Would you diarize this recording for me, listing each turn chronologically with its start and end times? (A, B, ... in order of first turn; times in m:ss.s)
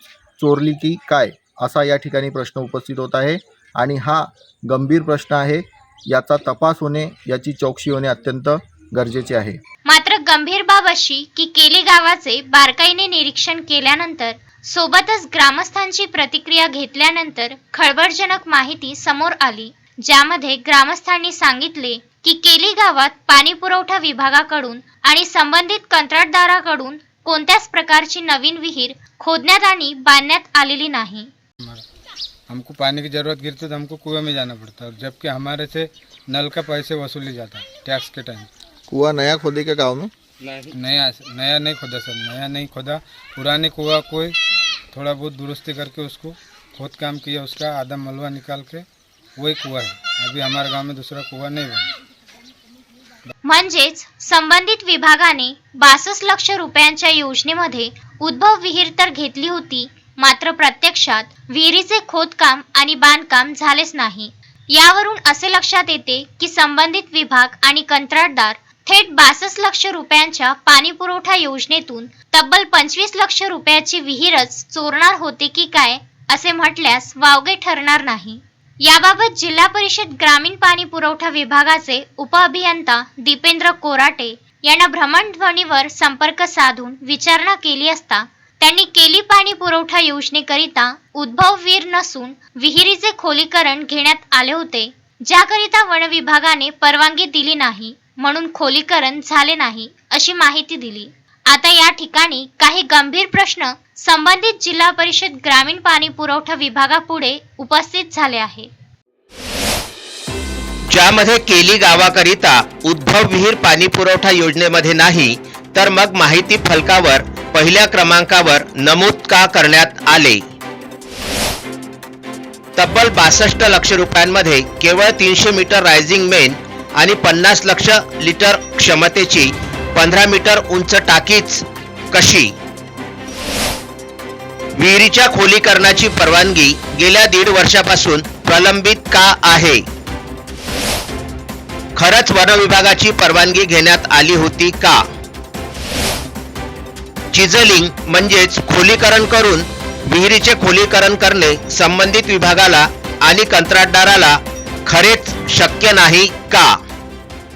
0:00.4-0:09.6 A
0:09.9-0:31.3 B
0:32.5-0:38.5 C
0:38.9-0:40.1 A
0:40.5-0:44.4 C
0:44.9-0:51.9 C
0:53.4-1:48.7 B
1:50.9-2:00.4 D
2:02.8-2:12.5 D
2:14.8-2:19.8 D
2:22.0-2:25.0 D
2:27.3-2:36.7 D